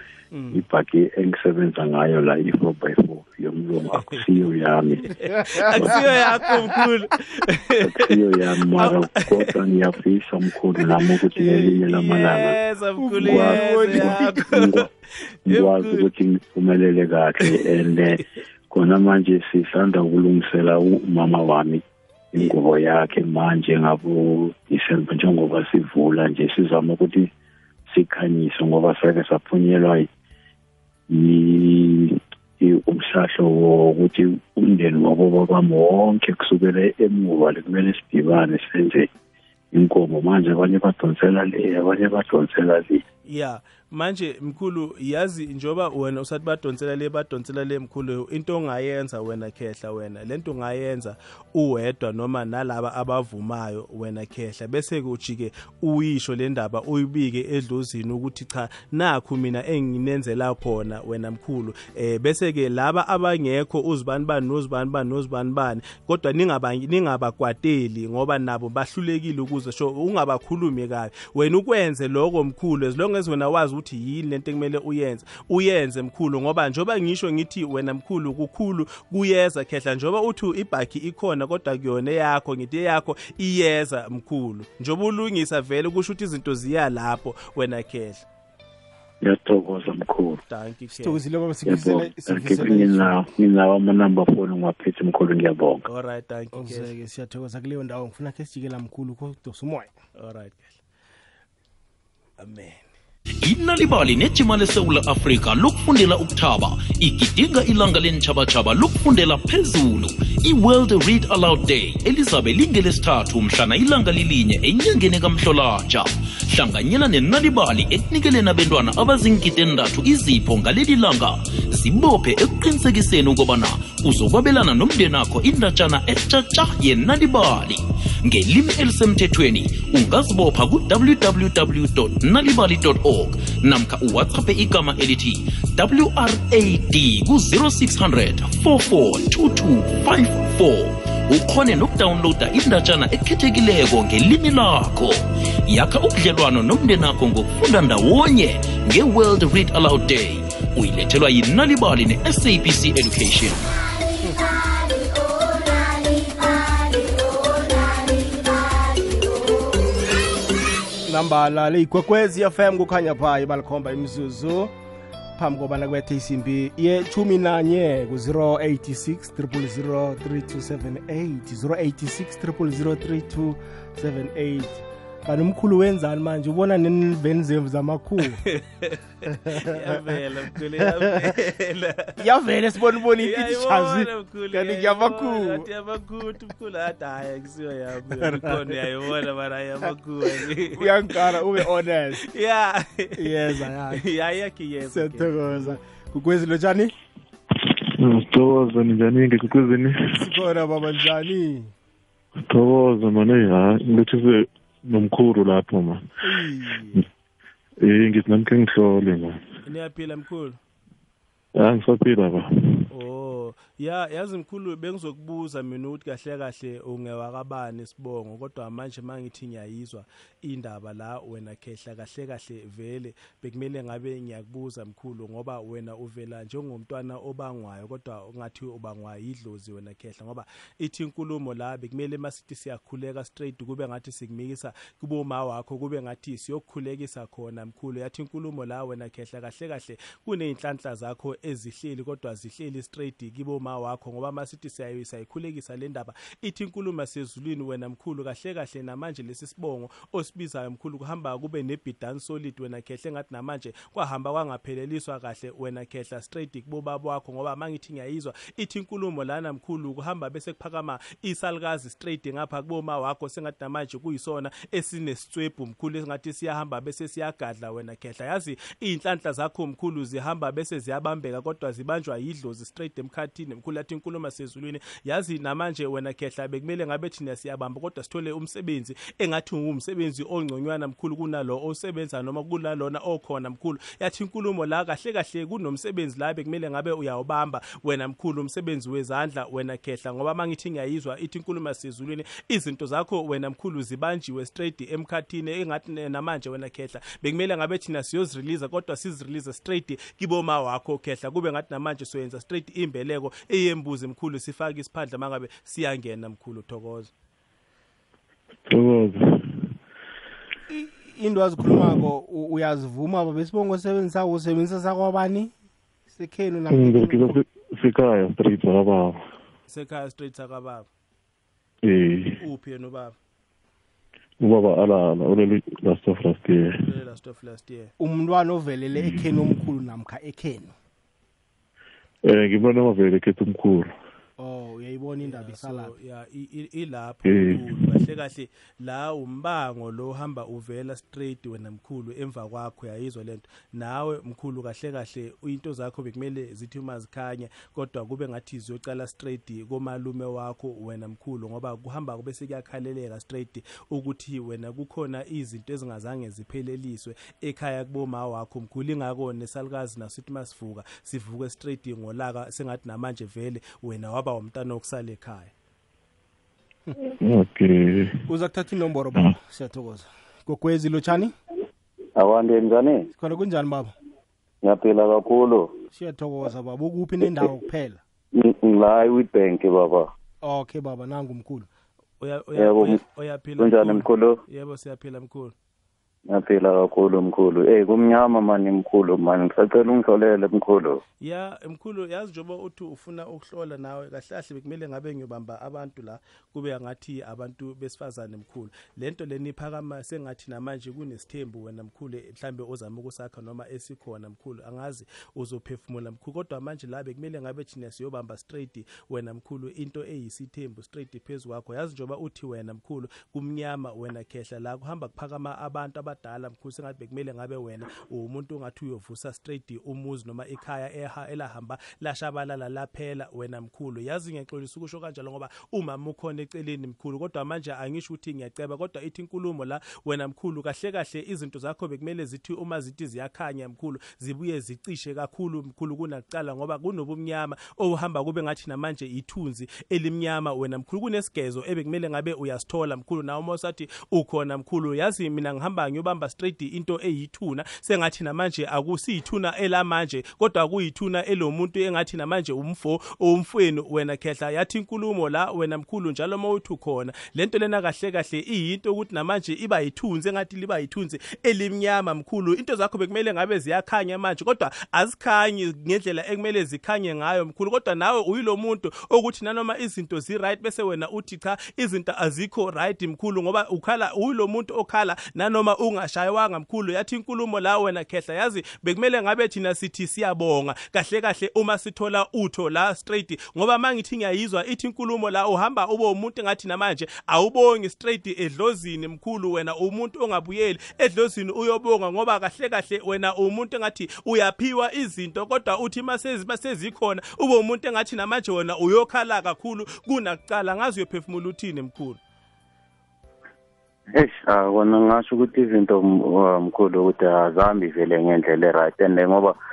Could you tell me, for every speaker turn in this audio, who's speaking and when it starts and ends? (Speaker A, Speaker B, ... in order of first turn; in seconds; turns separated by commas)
Speaker A: 0.3-0.6, Speaker B: 0.5-6.2, Speaker A: 5.2-8.1, Speaker B: 7.8-12.6, Speaker A: 8.8-9.5, Speaker A: 11.6-16.1, Speaker C: 13.0-14.4, Speaker B: 13.2-14.9, Speaker B: 15.5-27.3, Speaker B: 27.9-30.1, Speaker B: 31.1-39.1, Speaker B: 39.7-43.0, Speaker A: 43.3-88.2, Speaker B: 89.2-90.4, Speaker A: 90.5-91.2, Speaker C: 90.9-93.2, Speaker B: 91.7-95.8, Speaker A: 95.9-96.9, Speaker C: 96.5-99.9, Speaker A: 100.2-100.8, Speaker A: 102.4-102.9, Speaker D: 103.4-153.7, Speaker C: 161.1-164.7, Speaker C: 165.4-178.4, Speaker A: 178.4-182.2, Speaker C: 179.3-180.1, Speaker C: 180.8-181.3, Speaker C: 182.2-185.7, Speaker A: 183.2-191.7, Speaker C: 188.2-188.9, Speaker C: 190.6-192.2, Speaker A: 192.2-195.8, Speaker C: 193.2-194.1, Speaker C: 194.9-196.9, Speaker E: 198.0-200.0, Speaker C: 200.2-201.7, Speaker E: 202.5-206.0, Speaker C: 206.2-207.0, Speaker E: 207.8-209.4, Speaker A: 209.7-210.6, Speaker E: 211.6-212.8, Speaker A: 212.9-307.1, Speaker E: 308.7-309.7, Speaker C: 310.7-315.5, Speaker C: 316.1-317.4, Speaker E: 316.7-319.2, Speaker A: 319.7-320.9, Speaker E: 321.9-322.4, Speaker A: 322.4-323.2, Speaker E: 324.4-326.9, Speaker A: 326.9-327.9, Speaker C: 328.0-330.7, Speaker E: 329.0-329.3, Speaker E: 332.3-333.9, Speaker C: 334.4-335.9, Speaker A: 335.2-365.5, Speaker E: 337.2-337.9, Speaker E: 367.2-368.2, Speaker C: 368.3-371.4, Speaker F: 372.2-373.1, Speaker C: 373.1-373.9, Speaker F: 374.6-375.7, Speaker C: 375.9-378.0, Speaker F: 378.4-380.1, Speaker C: 380.4-381.7, Speaker A: 382.2-385.5, Speaker F: 382.6-383.0, Speaker F: 383.6-384.4, Speaker F: 386.3-391.0, Speaker A: 391.2-502.2, Speaker F: 504.1-509.5